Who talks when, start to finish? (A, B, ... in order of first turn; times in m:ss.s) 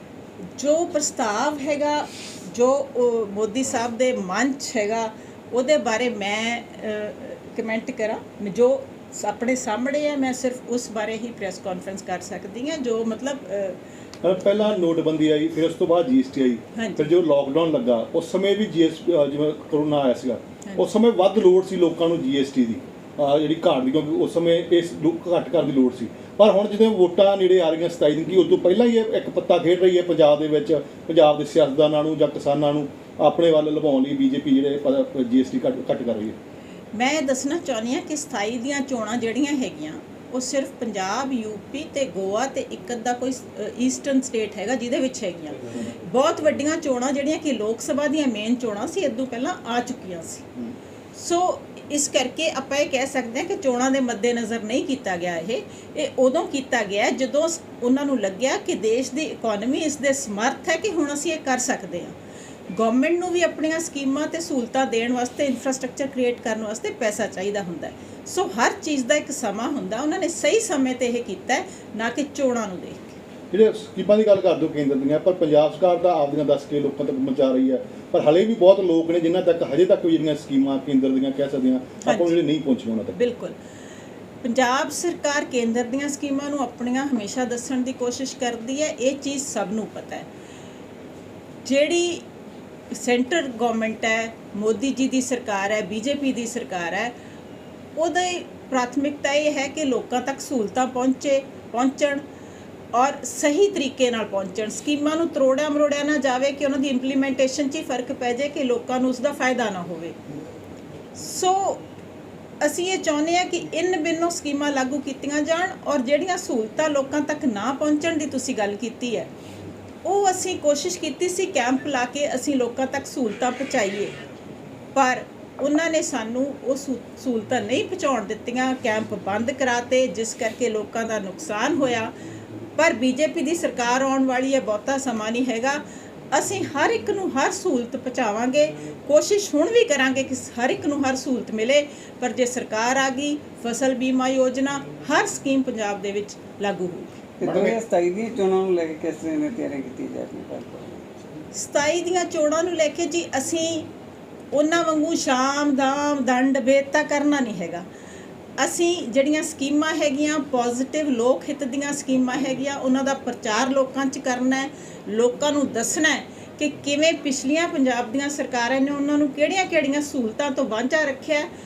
0:00.6-0:13.8 A
0:14.2-0:36.4 B
0:16.8-0:17.1 A
0:36.9-0:50.5 A
0:51.1-1:02.2 A
1:02.7-1:13.1 A
1:13.5-1:23.2 B
1:22.0-1:22.4 A
1:23.1-1:23.6 A
1:24.4-1:30.3 A
1:31.6-1:32.3 A
1:32.9-1:37.1 A
1:38.0-1:42.2 A
1:42.9-1:50.2 A
1:51.2-1:51.8 A
1:52.6-1:59.3 A
2:00.0-2:04.1 A
2:04.9-2:12.2 A
2:12.8-2:27.2 A
2:27.4-2:31.1 C
2:27.4-2:27.8 B
2:31.5-2:33.9 A
2:34.5-2:37.9 A
2:38.6-2:51.5 A